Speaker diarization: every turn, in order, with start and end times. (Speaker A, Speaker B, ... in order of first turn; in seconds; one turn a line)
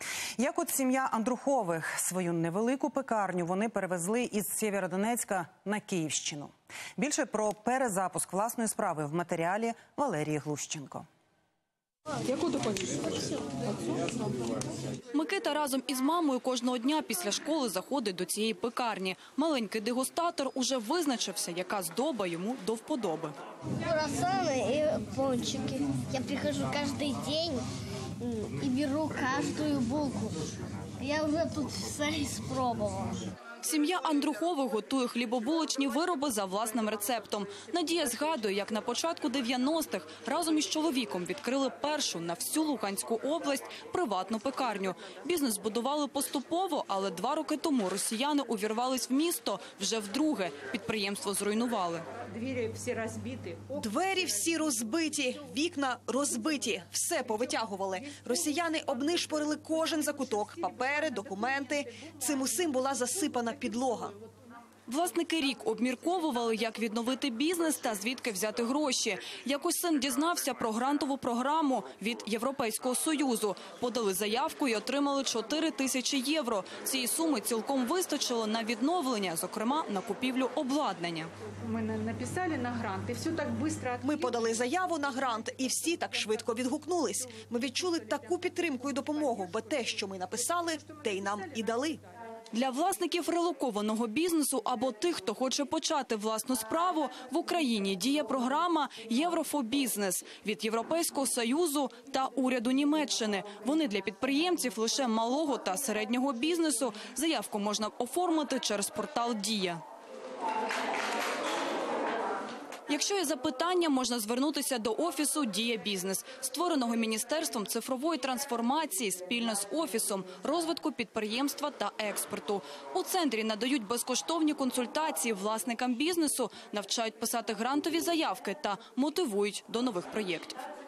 Speaker A: 0.4-11.1
Speaker B: 12.2-14.5
Speaker C: 15.1-23.4
Speaker D: 23.8-27.7
Speaker D: 28.2-30.4
Speaker D: 31.0-33.2
Speaker C: 33.6-52.0
Speaker B: 52.4-53.8
Speaker E: 53.8-64.2
Speaker C: 64.9-81.3
Speaker B: 81.7-84.2
Speaker E: 84.0-92.0
Speaker C: 92.5-109.8
Speaker C: 112.9-130.6